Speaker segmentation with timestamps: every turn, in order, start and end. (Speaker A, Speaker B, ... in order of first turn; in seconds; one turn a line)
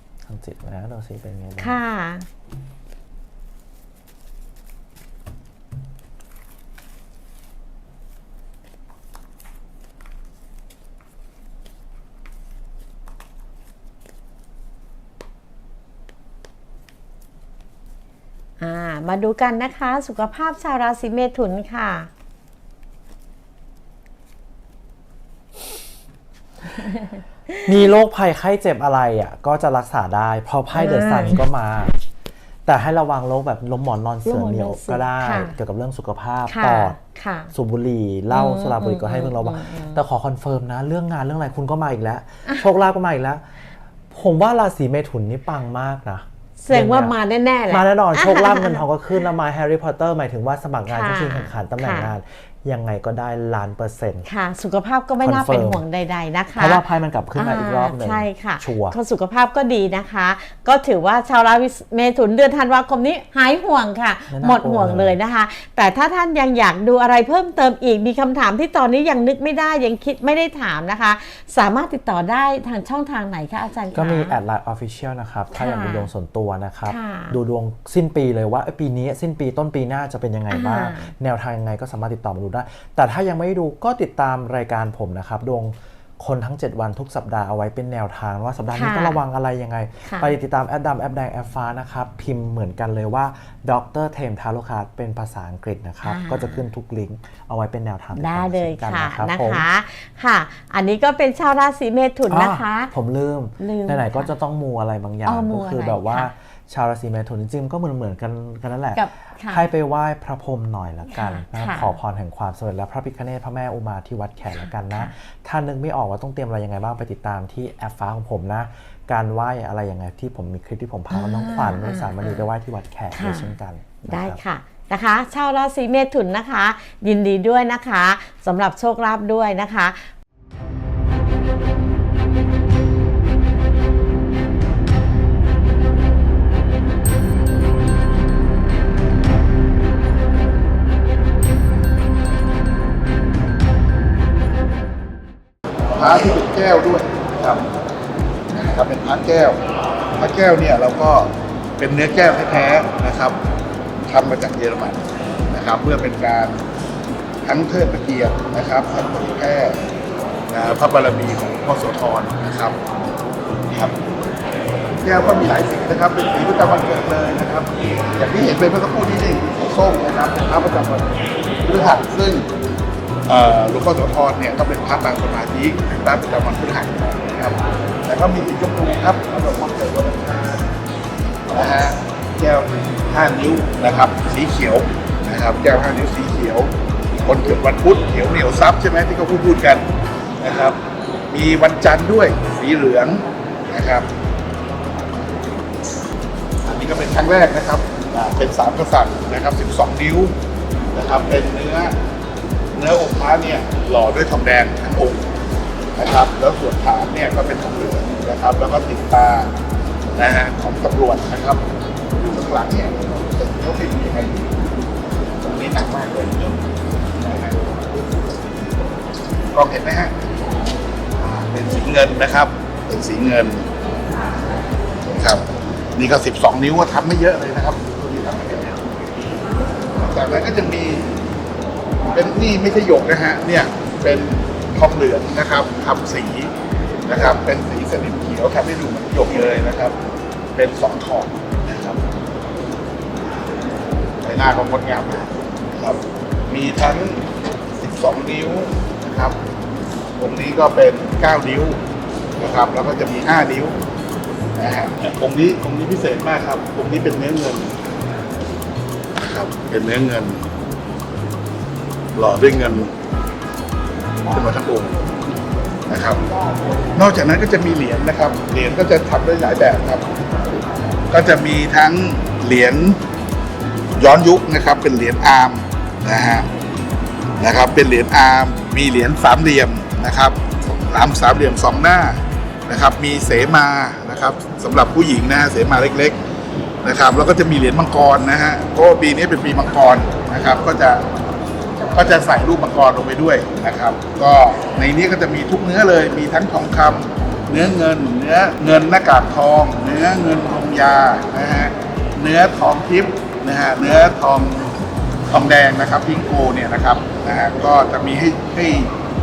Speaker A: 0.3-1.8
Speaker B: 1.6-2.3
Speaker B: 18.6-22.1
Speaker B: 26.8-27.6
Speaker A: 27.6-31.9
Speaker B: 30.7-31.4
Speaker A: 32.6-37.0
Speaker B: 34.2-35.6
Speaker B: 36.5-37.5
Speaker A: 37.5-43.4
Speaker B: 38.3-40.0
Speaker A: 44.1-47.2
Speaker B: 46.6-48.8
Speaker A: 47.7-54.3
Speaker B: 50.9-52.1
Speaker B: 54.3-56.8
Speaker A: 55.2-55.8
Speaker A: 56.5-59.0
Speaker B: 57.4-74.4
Speaker A: 64.3-65.2
Speaker A: 73.9-99.7
Speaker B: 75.5-76.1
Speaker B: 76.9-77.4
Speaker B: 80.5-81.1
Speaker B: 88.7-89.2
Speaker B: 90.1-90.3
Speaker B: 96.0-96.7
Speaker B: 98.2-102.9
Speaker A: 102.3-124.4
Speaker B: 103.6-104.3
Speaker B: 105.2-106.3
Speaker B: 109.0-109.7
Speaker B: 111.1-112.0
Speaker B: 114.6-115.1
Speaker B: 121.1-122.5
Speaker B: 123.1-123.5
Speaker B: 124.1-130.1
Speaker C: 145.9-147.7
Speaker C: 148.5-149.6
Speaker C: 150.2-153.4
Speaker C: 154.1-156.6
Speaker C: 157.4-159.8
Speaker C: 160.5-162.8
Speaker C: 163.7-164.0
Speaker C: 165.0-171.1
Speaker C: 171.6-172.5
Speaker C: 173.3-180.7
Speaker C: 181.5-186.7
Speaker C: 187.2-189.9
Speaker C: 190.4-190.8
Speaker C: 191.3-194.1
Speaker C: 196.7-200.3
Speaker C: 200.9-202.0
Speaker C: 202.8-205.2
Speaker C: 206.0-209.5
Speaker C: 210.2-211.7
Speaker C: 212.2-214.5
Speaker C: 215.4-216.6
Speaker C: 217.2-218.3
Speaker C: 219.5-220.2
Speaker C: 221.2-223.7
Speaker C: 225.1-228.8
Speaker C: 230.0-231.1
Speaker C: 232.1-236.5
Speaker C: 237.1-240.0
Speaker C: 240.6-242.0
Speaker C: 244.2-247.2
Speaker C: 247.8-249.4
Speaker C: 250.2-251.8
Speaker C: 252.4-253.8
Speaker C: 254.6-257.7
Speaker C: 259.2-260.5
Speaker C: 262.1-262.9
Speaker C: 264.3-264.9
Speaker C: 265.9-266.2
Speaker C: 266.9-270.1
Speaker C: 271.1-273.0
Speaker C: 274.0-276.5
Speaker C: 277.4-286.2
Speaker C: 286.8-291.0
Speaker C: 291.9-304.7
Speaker C: 305.3-308.9